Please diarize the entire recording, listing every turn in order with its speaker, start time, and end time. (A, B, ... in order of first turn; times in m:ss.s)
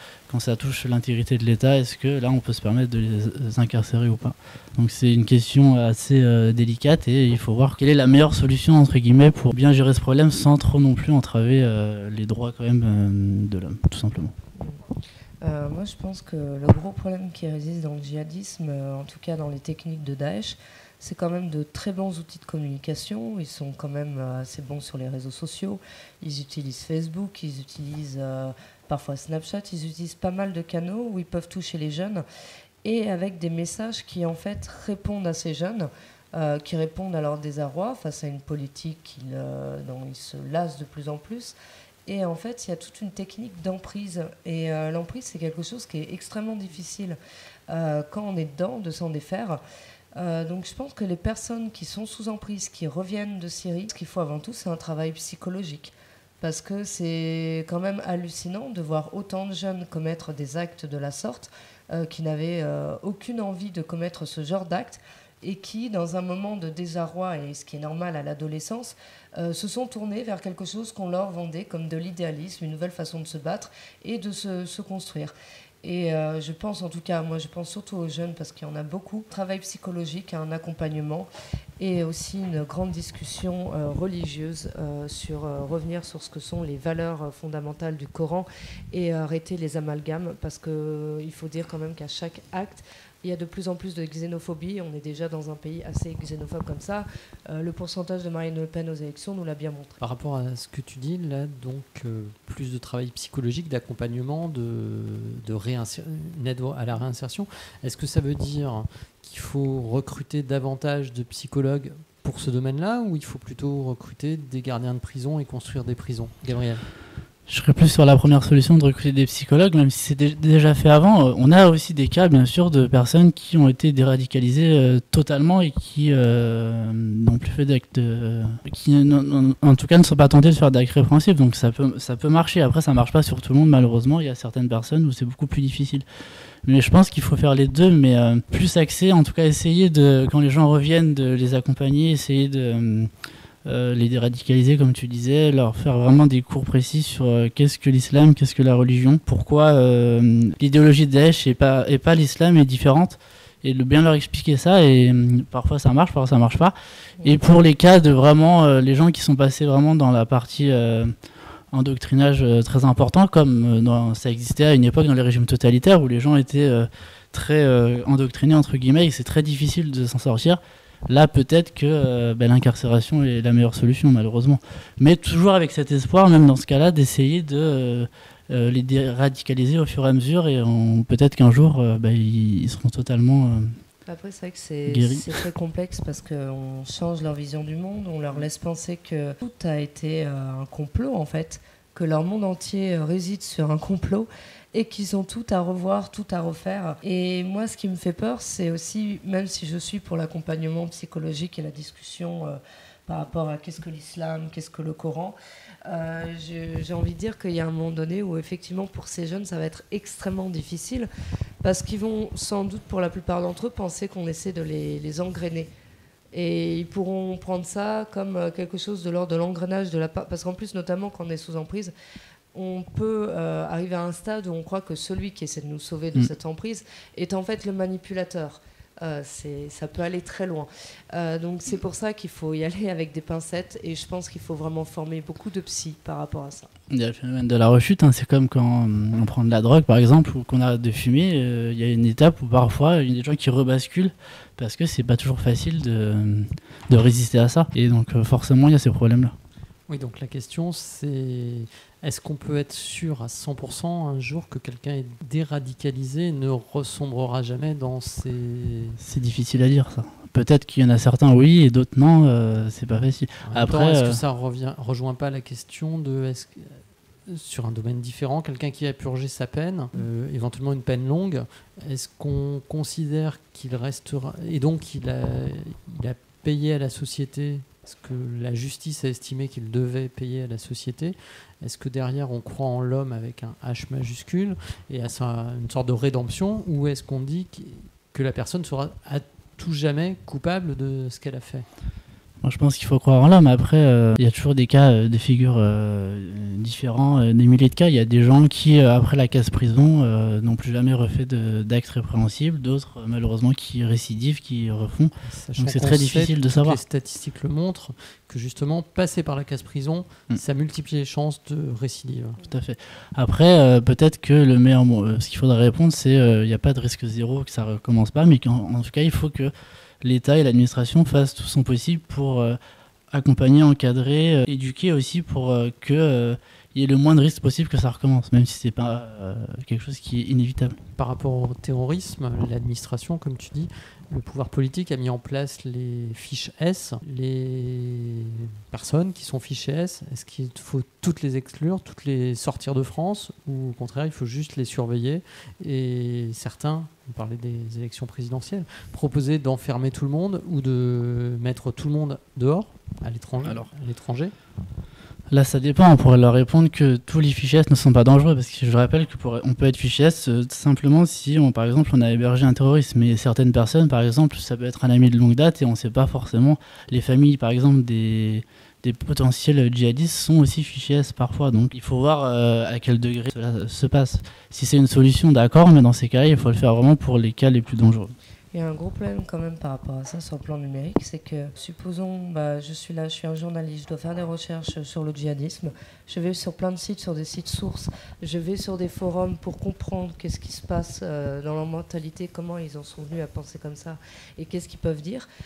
0:00.3-0:14.3 A
0:15.4-0:32.2 B
0:32.8-0:41.6 B
0:42.1-0:47.2 B
0:47.7-0:49.6 B
0:50.2-1:40.0 B
1:40.0-1:56.8 C
1:57.5-2:16.0 A
2:16.6-2:23.1 A
2:23.6-2:41.1 A
2:41.7-3:03.8 A
3:04.1-3:31.1 B
3:04.9-3:05.4 A
3:31.6-3:35.7 B
3:36.3-3:41.9 B
3:42.5-3:56.7 B
3:56.9-4:09.4 A
4:09.9-4:19.0 C
4:19.0-4:24.2 A
4:23.4-4:51.7 C
4:52.4-5:06.8 A
5:05.3-5:12.4 C
5:12.5-5:22.6 A
5:23.1-5:30.8 A
5:31.0-5:54.3 C
5:55.3-6:18.1 A
6:18.5-6:35.3 B